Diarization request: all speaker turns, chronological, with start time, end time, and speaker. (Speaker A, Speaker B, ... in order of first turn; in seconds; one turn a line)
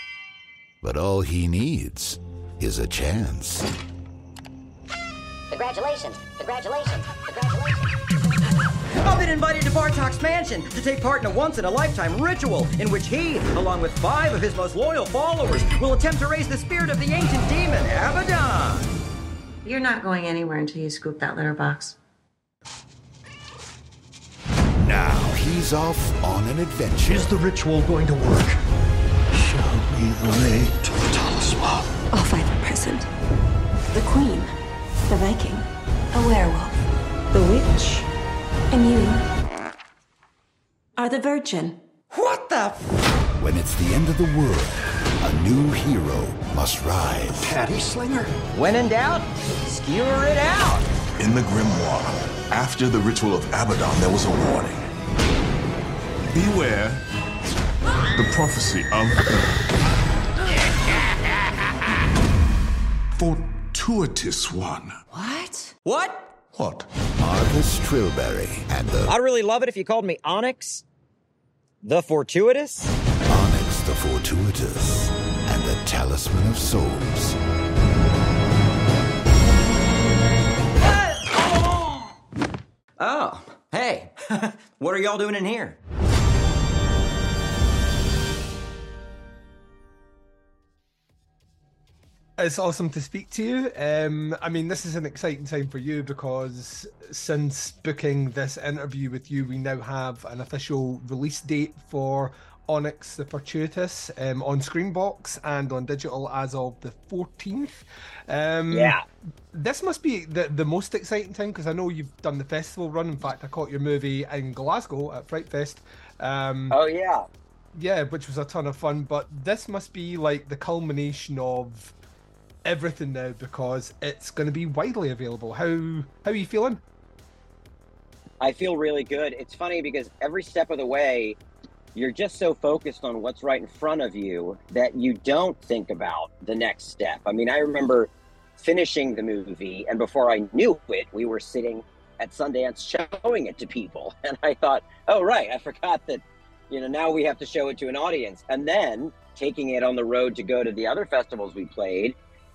Speaker A: 0.8-3.7
Speaker B: 5.5-7.9
Speaker C: 9.0-18.9
Speaker D: 19.6-22.0
Speaker A: 24.8-27.3
Speaker E: 27.0-28.6
Speaker E: 29.3-31.9
Speaker F: 32.1-33.1
Speaker F: 33.9-38.1
Speaker F: 38.7-39.3
Speaker F: 41.0-41.8
Speaker C: 42.1-42.9
Speaker A: 43.4-47.5
Speaker E: 47.4-48.3
Speaker C: 48.5-50.9
Speaker G: 51.2-54.9
Speaker G: 56.3-57.0
Speaker G: 58.1-59.6
Speaker G: 63.1-65.0
Speaker D: 65.1-65.8
Speaker C: 65.8-66.4
Speaker G: 66.5-66.9
Speaker A: 67.2-69.1
Speaker C: 69.1-70.8
Speaker C: 71.9-72.9
Speaker A: 73.3-77.4
Speaker C: 80.8-82.1
Speaker C: 83.0-85.8
Speaker H: 92.4-109.0
Speaker I: 108.7-109.0
Speaker H: 109.5-116.8
Speaker I: 116.7-117.2
Speaker H: 117.8-121.9
Speaker H: 122.7-126.8
Speaker I: 128.4-131.4
Speaker I: 131.9-152.2